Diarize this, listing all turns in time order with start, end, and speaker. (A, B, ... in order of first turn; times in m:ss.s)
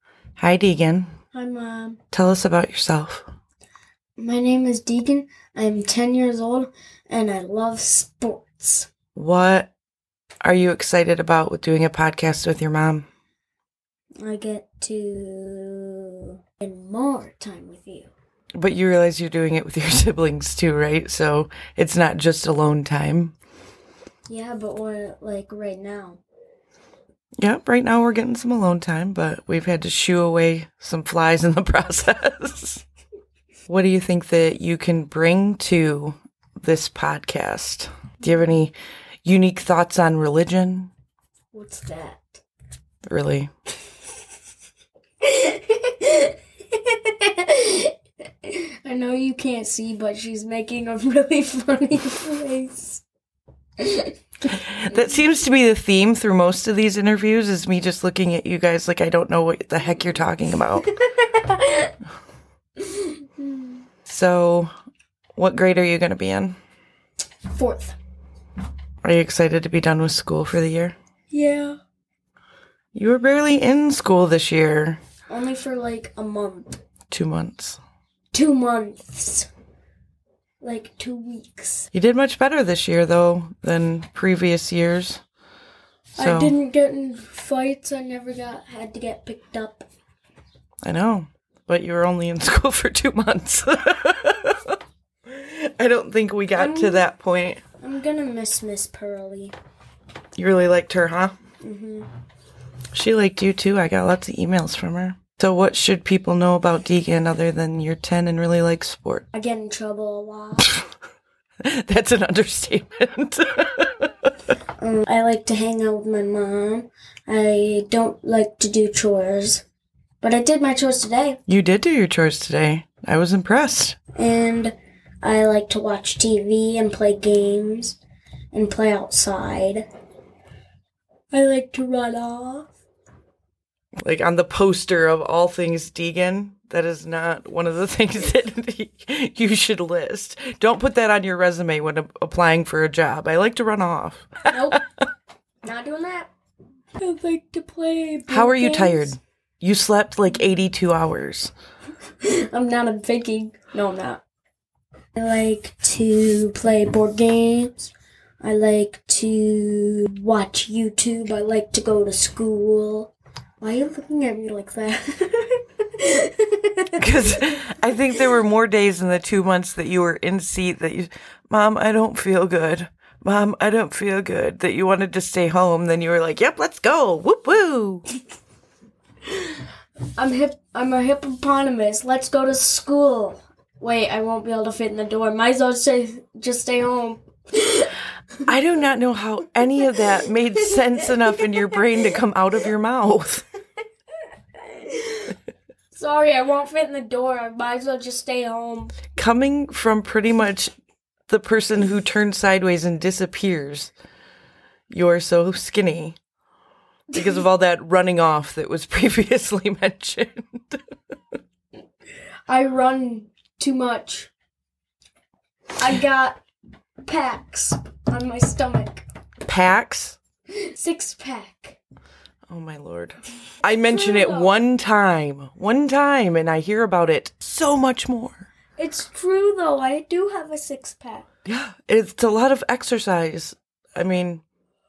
0:00.4-0:01.1 A
0:01.3-0:02.0 B
0:02.1-0:03.3 A
0:04.2-0:08.9 B
0:09.2-0:09.7 A
0:10.4-0:13.1 A
0:14.2-0:18.1 B
0:18.6-0:23.3 A
0:24.3-0:26.2 B
0:27.4-0:32.8 A
0:33.7-0:38.7 A
0:39.2-0:40.9 A
0:41.5-0:42.4 B
0:43.1-0:43.5 A
0:45.2-0:53.0 B
0:53.8-0:54.5 B
0:54.5-1:00.9 A
1:01.0-1:01.9 B
1:02.8-1:03.8 B
1:04.1-1:04.7 A
1:05.4-1:06.6 A
1:07.5-1:08.0 B
1:09.0-1:11.0 A
1:11.3-1:11.8 B
1:12.9-1:15.0 A
1:15.3-1:16.7 B
1:17.1-1:17.8 A
1:18.3-1:19.5 B
1:20.6-1:21.9 B
1:21.9-1:25.2 A
1:26.2-1:26.5 A
1:26.2-1:29.9 B
1:30.8-1:37.6 A
1:36.6-1:37.1 B
1:37.8-1:39.6 B
1:40.4-1:41.4 A
1:41.6-1:42.1 B
1:42.9-1:49.3 A
1:49.3-1:50.7 B
1:51.6-1:54.3 A
1:54.8-1:59.6 B
2:00.2-2:01.4 B
2:01.5-2:04.0 A
2:04.2-2:08.0 B
2:08.5-2:09.9 B
2:11.3-2:12.7 B
2:14.0-2:24.8 A
2:24.5-2:24.8 B
2:25.6-2:26.3 B
2:27.0-2:29.2 B
2:28.3-2:31.5 A
2:32.2-2:34.2 B
2:35.2-2:47.5 B
2:47.0-2:58.1 A
3:00.2-3:07.9 B
3:08.5-3:13.5 A
3:11.0-3:11.7 B
3:14.6-3:15.4 B
3:15.9-3:19.0 B
3:19.2-3:20.7 A
3:21.3-3:23.9 A
3:24.9-3:26.2 A
3:27.1-3:30.8 A
3:32.5-3:34.3 B
3:35.8-3:36.4 B
3:37.0-3:39.0 B
3:39.4-3:40.2 A
3:40.6-3:41.8 B
3:42.5-3:48.5 A
3:43.8-3:44.5 B
3:48.8-3:51.3 B
3:51.5-3:54.4 A